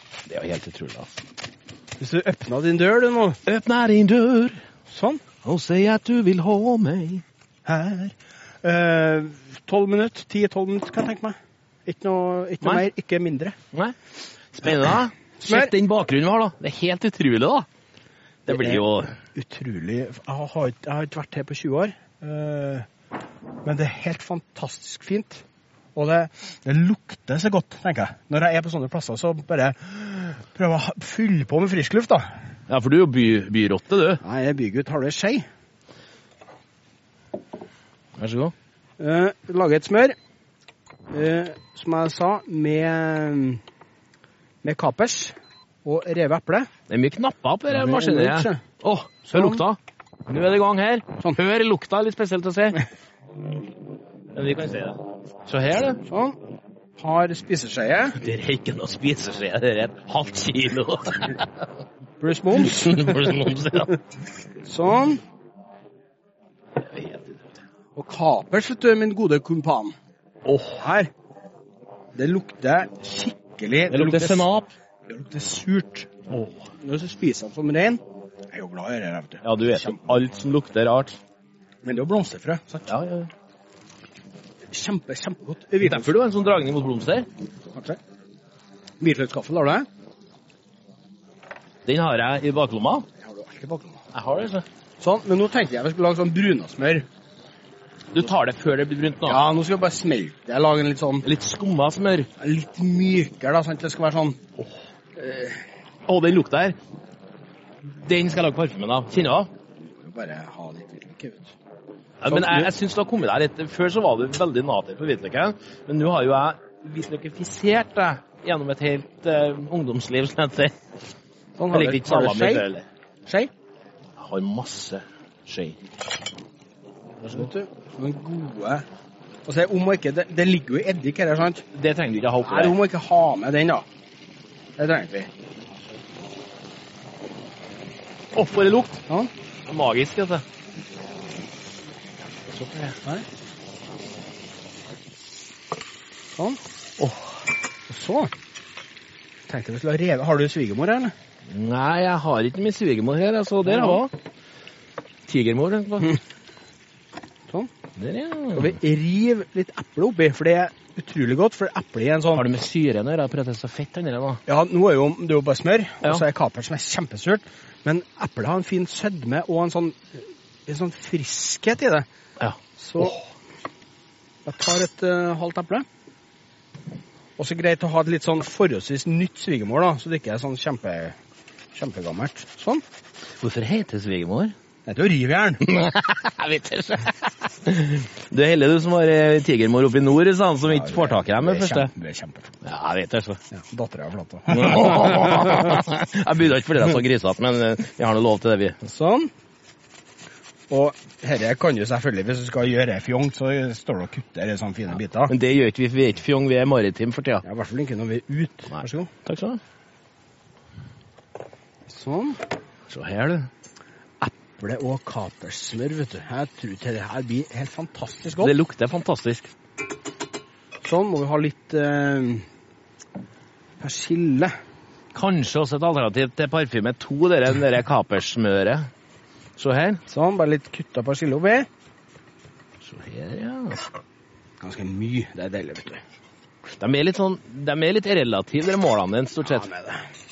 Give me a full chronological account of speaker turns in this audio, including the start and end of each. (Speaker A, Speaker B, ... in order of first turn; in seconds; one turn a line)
Speaker A: 0.3-1.2
Speaker B: 2.0-3.4
Speaker A: 3.5-4.6
Speaker B: 4.9-5.2
Speaker A: 5.4-7.2
Speaker B: 7.6-13.6
Speaker A: 14.5-17.7
Speaker B: 15.4-15.7
Speaker B: 18.5-18.8
Speaker A: 18.5-19.1
Speaker B: 19.3-22.9
Speaker B: 23.6-25.4
Speaker B: 25.9-32.3
Speaker A: 32.7-34.2
Speaker B: 34.2-35.4
Speaker A: 38.2-38.5
Speaker B: 39.0-40.1
Speaker B: 41.1-43.6
Speaker B: 44.6-46.7
Speaker A: 46.9-52.8
Speaker B: 47.7-48.6
Speaker B: 49.3-49.6
Speaker A: 54.3-56.0
Speaker B: 56.1-56.4
Speaker B: 57.0-58.2
Speaker A: 58.2-61.5
Speaker B: 62.2-63.4
Speaker A: 62.5-64.0
Speaker B: 64.6-65.2
Speaker A: 66.8-67.5
Speaker B: 68.0-69.9
Speaker A: 70.5-70.8
Speaker B: 70.7-71.1
Speaker B: 72.2-74.5
Speaker A: 73.9-74.7
Speaker B: 75.1-76.1
Speaker A: 76.3-76.6
Speaker B: 76.8-80.0
Speaker A: 79.4-81.2
Speaker B: 81.8-82.9
Speaker A: 82.9-83.3
Speaker B: 84.7-86.1
Speaker A: 85.8-87.3
Speaker B: 87.7-88.0
Speaker B: 89.0-89.9
Speaker A: 91.8-93.0
Speaker B: 93.2-94.0
Speaker A: 94.1-94.6
Speaker B: 95.0-97.0
Speaker A: 98.1-99.4
Speaker B: 99.2-101.3
Speaker A: 101.2-102.3
Speaker B: 102.4-104.4
Speaker B: 105.2-105.5
Speaker A: 106.1-106.8
Speaker A: 108.0-109.5
Speaker B: 110.0-111.5
Speaker A: 112.2-120.7
Speaker B: 112.2-112.7
Speaker B: 121.6-122.7
Speaker A: 121.7-122.8
Speaker A: 124.2-125.8
Speaker B: 127.3-128.8
Speaker B: 129.4-131.6
Speaker A: 131.7-132.8
Speaker B: 132.4-133.8
Speaker B: 134.8-135.3
Speaker A: 138.3-139.0
Speaker A: 139.7-140.4
Speaker A: 142.5-142.9
Speaker A: 147.0-147.3
Speaker B: 147.9-148.3
Speaker B: 149.5-151.1
Speaker A: 151.5-154.1
Speaker B: 153.7-154.0
Speaker A: 155.3-156.2
Speaker A: 157.9-158.8
Speaker B: 158.5-162.4
Speaker A: 162.3-164.4
Speaker B: 164.5-172.1
Speaker A: 172.4-173.2
Speaker B: 172.8-173.2
Speaker B: 174.4-175.8
Speaker B: 177.4-181.2
Speaker B: 181.7-182.8
Speaker A: 183.4-184.5
Speaker B: 184.8-185.7
Speaker A: 185.6-191.9
Speaker B: 190.7-192.6
Speaker A: 192.6-193.4
Speaker B: 193.5-195.7
Speaker A: 194.5-198.8
Speaker B: 198.8-199.3
Speaker B: 200.7-205.3
Speaker A: 205.3-207.4
Speaker B: 207.4-209.1
Speaker A: 209.2-209.6
Speaker B: 211.9-212.4
Speaker A: 212.9-213.5
Speaker B: 214.2-218.5
Speaker A: 218.4-219.5
Speaker B: 220.8-222.4
Speaker B: 223.8-224.5
Speaker A: 225.1-228.9
Speaker A: 229.6-230.0
Speaker B: 230.1-231.7
Speaker A: 232.8-233.8
Speaker B: 234.6-236.0
Speaker A: 236.8-239.7
Speaker B: 239.4-240.1